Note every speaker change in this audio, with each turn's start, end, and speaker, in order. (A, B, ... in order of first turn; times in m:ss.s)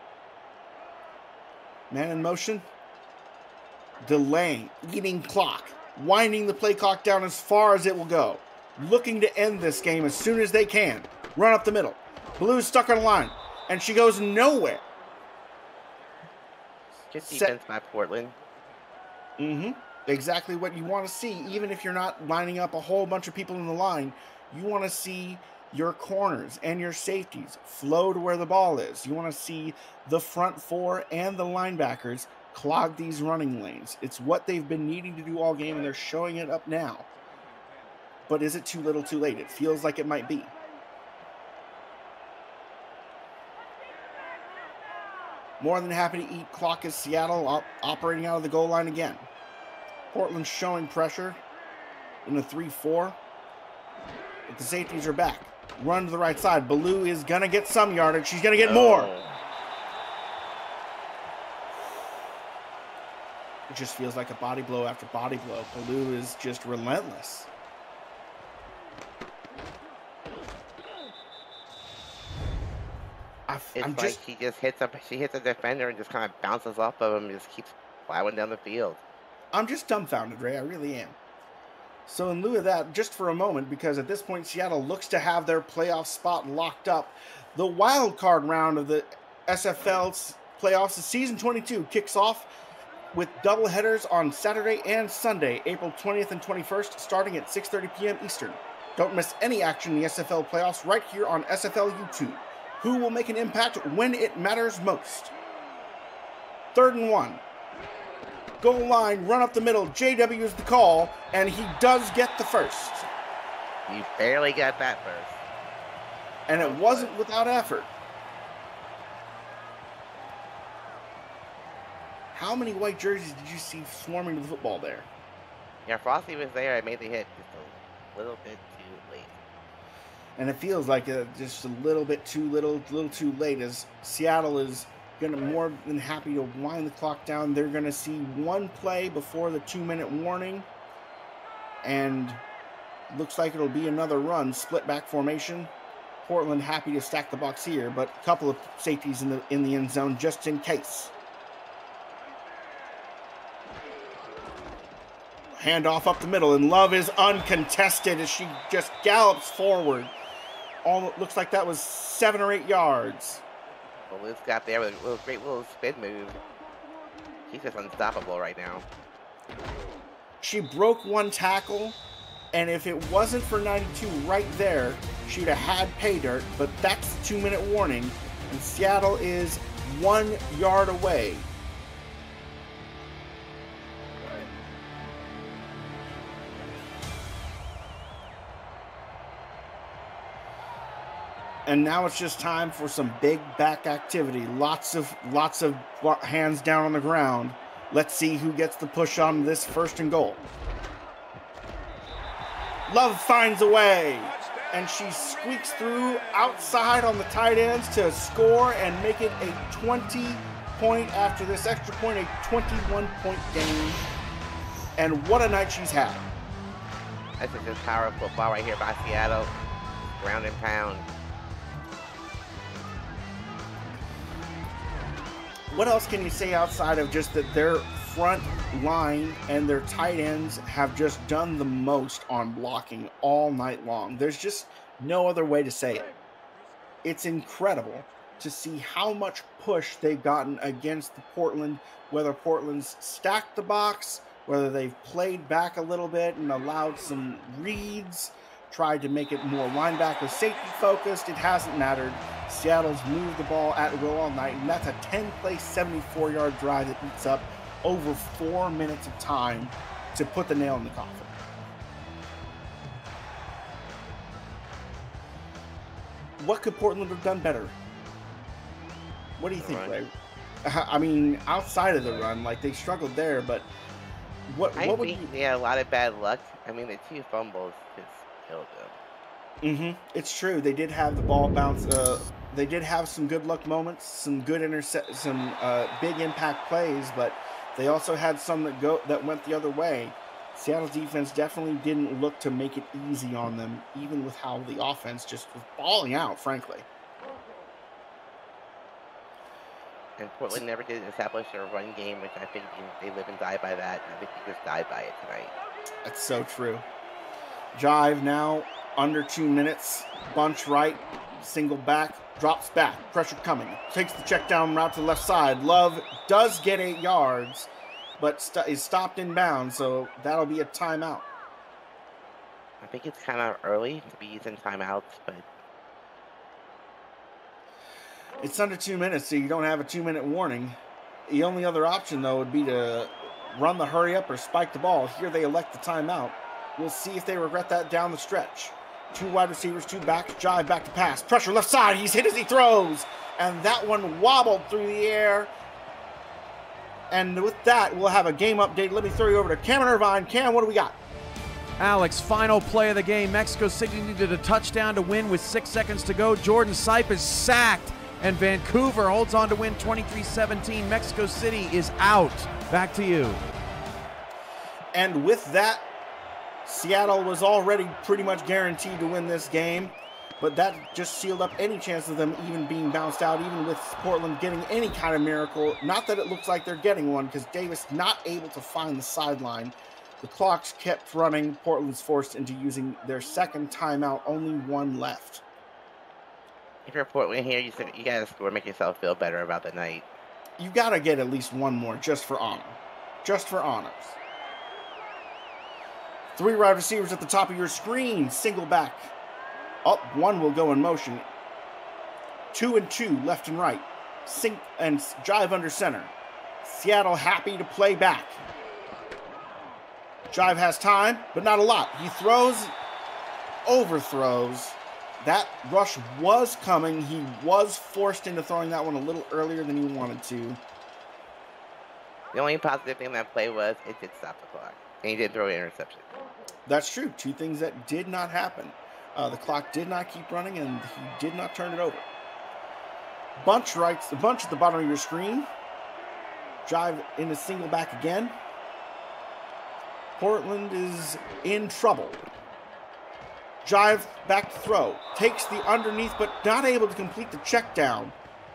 0:01.9-0:02.7 A
0:04.0-0:14.8 A
0:17.1-0:18.4 B
0:17.2-0:17.5 A
0:19.4-0:37.0 A
0:38.3-0:40.5 A
0:45.6-0:49.3 A
0:50.1-0:51.4 A
0:52.2-0:53.2 A
0:54.5-0:59.1 A
0:58.6-0:59.4 B
1:03.7-1:07.5 A
1:13.5-1:14.2 A
1:13.8-1:19.0 B
1:19.5-1:21.2 A
1:22.1-1:32.5 A
1:33.1-1:45.3 A
1:46.7-1:47.4 A
1:48.6-1:53.1 A
1:53.9-1:55.4 B
1:56.5-1:57.9 A
1:56.5-1:57.2 B
2:02.3-2:05.1 A
2:05.8-2:09.4 B
2:10.4-2:20.7 A
2:21.8-2:22.4 A
2:23.1-2:25.7 A
2:26.2-2:31.1 A
2:35.6-2:40.1 A
2:40.8-2:43.4 A
2:44.1-2:46.4 B
2:47.5-2:48.9 B
2:50.4-2:52.0 A
2:52.5-3:01.5 A
3:11.7-3:20.4 A
3:22.9-3:34.0 A
3:35.0-3:36.3 A
3:37.4-3:39.5 B
3:40.2-3:41.1 B
3:45.7-3:56.2 A
3:57.0-4:21.4 A
4:26.4-4:27.8 A
4:29.4-4:30.1 A
4:29.6-4:30.0 B
4:30.6-4:33.7 A
4:34.5-4:35.3 A
4:34.8-4:39.0 B
4:39.6-4:56.9 A
5:00.2-5:05.5 B
5:06.0-5:06.9 A
5:07.7-5:21.2 A
5:22.8-5:25.5 B
5:28.4-5:45.5 A
5:47.1-5:51.0 A
5:51.8-6:03.4 C
6:04.9-6:05.8 A
6:06.6-6:25.4 A
6:26.9-6:30.0 B
6:30.6-6:34.2 A
6:36.4-6:39.1 A
6:39.8-6:41.3 A
6:42.5-6:48.4 A
6:50.3-6:52.8 A
6:53.7-7:00.6 A
7:02.3-7:06.1 B
7:06.7-7:12.1 A
7:13.4-7:15.5 A
7:16.6-7:18.4 A
7:20.2-7:22.3 A
7:23.6-7:28.2 A